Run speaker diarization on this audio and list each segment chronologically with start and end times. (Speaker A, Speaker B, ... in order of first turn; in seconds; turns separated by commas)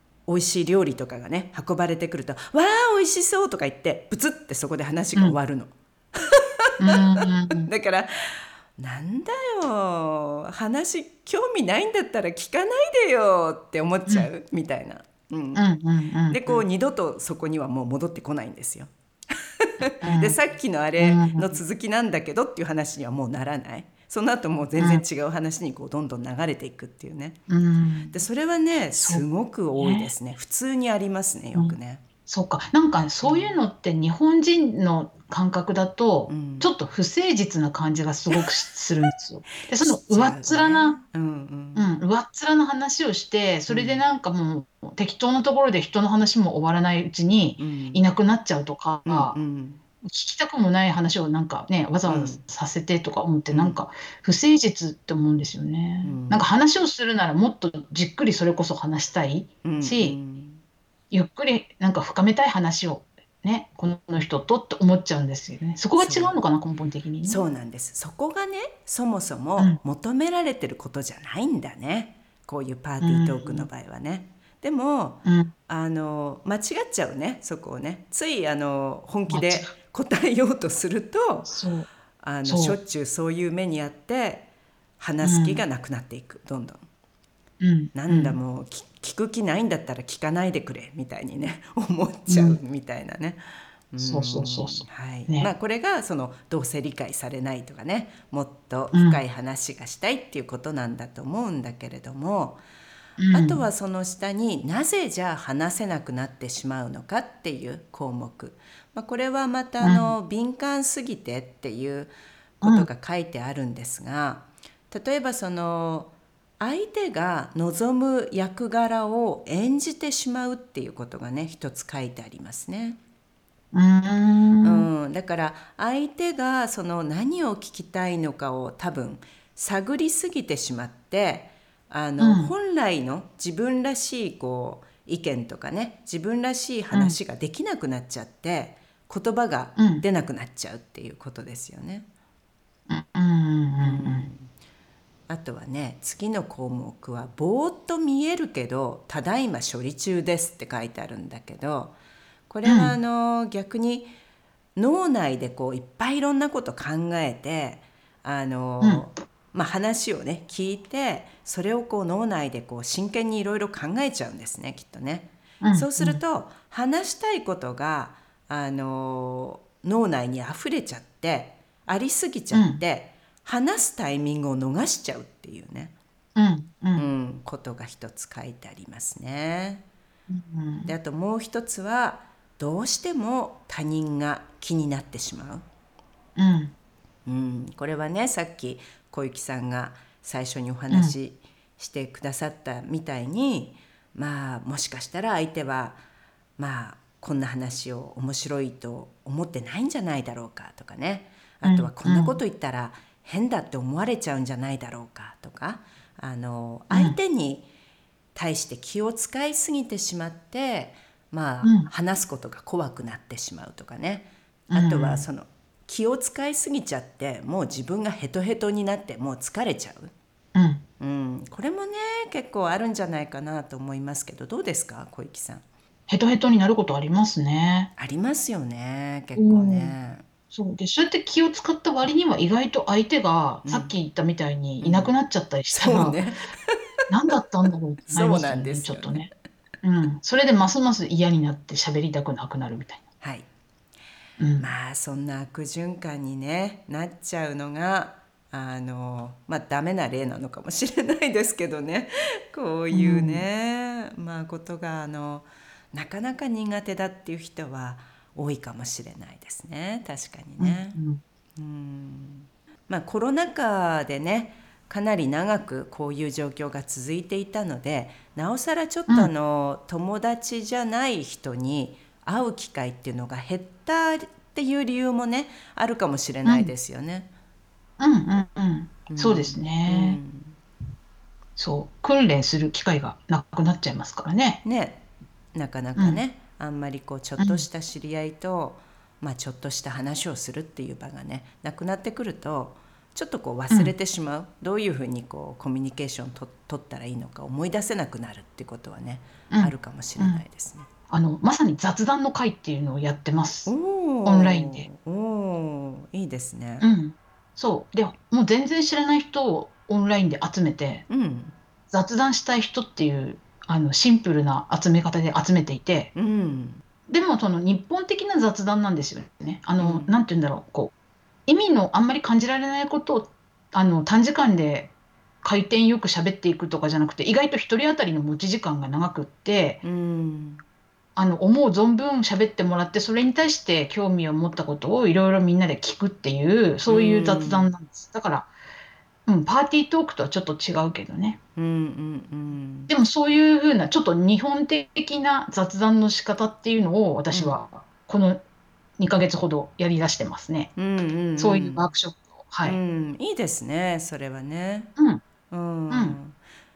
Speaker A: 0.3-15.6, Speaker B: 6.8-7.7, Speaker B: 15.5-16.6, Speaker A: 16.3-27.4, Speaker B: 20.0-20.4, Speaker B: 21.0-21.6, Speaker B: 24.8-25.0, Speaker B: 27.5-28.2, Speaker A: 28.1-32.0, Speaker B: 28.9-29.2, Speaker B: 29.8-30.1, Speaker B: 31.5-41.0, Speaker A: 33.2-33.6, Speaker A: 36.3-36.7, Speaker A: 39.7-41.9, Speaker B: 41.7-49.4, Speaker A: 43.7-44.0, Speaker A: 47.6-48.0, Speaker A: 49.0-49.8, Speaker B: 50.0-60.2, Speaker A: 52.1-52.4, Speaker A: 53.5-53.8, Speaker A: 56.0-56.5, Speaker A: 59.6-60.6, Speaker B: 61.1-67.4, Speaker A: 66.0-66.3, Speaker A: 67.2-81.5, Speaker B: 73.0-73.7, Speaker B: 75.2-75.5, Speaker B: 79.3-79.7, Speaker B: 81.5-81.9, Speaker A: 82.2-84.5, Speaker B: 82.5-82.8, Speaker A: 85.0-86.8, Speaker B: 85.2-85.6, Speaker B: 87.6-88.4, Speaker A: 87.9-102.6, Speaker B: 92.3-92.6, Speaker B: 94.0-95.5, Speaker B: 98.9-99.2, Speaker B: 103.2-103.6, Speaker A: 103.3-123.0, Speaker B: 109.8-110.1, Speaker B: 112.6-112.9, Speaker B: 123.7-124.9, Speaker A: 124.6-142.1, Speaker B: 132.2-132.5, Speaker B: 136.9-137.2, Speaker B: 139.8-140.0, Speaker B: 142.9-144.3, Speaker A: 143.8-144.5, Speaker A: 145.3-151.9, Speaker A: 152.5-154.1, Speaker B: 152.6-152.9, Speaker A: 154.8-175.9, Speaker B: 158.8-159.1, Speaker B: 165.6-166.2, Speaker B: 172.5-172.8, Speaker B: 176.3-177.1, Speaker A: 176.9-179.8, Speaker B: 180.3-180.9, Speaker A: 180.8-185.7, Speaker B: 186.3-186.7, Speaker A: 187.2-196.0, Speaker A: 196.6-207.7, Speaker B: 201.6-202.4, Speaker B: 206.9-207.2, Speaker A: 208.3-220.1, Speaker B: 211.6-211.9, Speaker B: 214.7-215.2, Speaker B: 220.5-220.8, Speaker A: 221.0-225.6, Speaker B: 226.1-227.9, Speaker A: 228.0-230.2, Speaker B: 229.3-229.9, Speaker B: 230.5-236.2, Speaker A: 233.6-233.9, Speaker A: 234.8-235.1, Speaker A: 235.7-236.8, Speaker B: 237.1-239.3, Speaker A: 238.1-239.3, Speaker B: 239.8-243.0, Speaker A: 243.2-243.5, Speaker B: 244.4-244.7, Speaker A: 244.6-261.0, Speaker B: 252.9-253.4, Speaker B: 260.6-261.2, Speaker A: 261.6-277.3, Speaker B: 276.4-276.7, Speaker B: 278.0-280.2, Speaker A: 279.1-280.6, Speaker B: 281.6-284.6, Speaker A: 284.6-285.0, Speaker A: 285.5-300.9, Speaker B: 287.4-287.6, Speaker B: 299.5-300.4, Speaker B: 301.1-303.7, Speaker A: 303.6-306.9, Speaker B: 304.2-304.9, Speaker B: 306.8-311.1, Speaker A: 311.1-311.5, Speaker B: 311.9-316.1, Speaker A: 316.1-316.8, Speaker B: 317.1-320.9, Speaker A: 319.8-320.2, Speaker B: 321.5-324.9, Speaker B: 325.4-329.8, Speaker A: 329.8-330.6, Speaker B: 331.2-338.5, Speaker A: 336.9-337.7, Speaker B: 339.2-341.4, Speaker A: 341.6-342.9, Speaker B: 342.9-348.4, Speaker A: 347.3-347.6, Speaker B: 349.0-350.7, Speaker A: 350.8-351.9, Speaker B: 351.4-352.8, Speaker A: 352.6-354.9, Speaker B: 355.0-355.2, Speaker A: 355.5-356.4, Speaker B: 355.9-356.2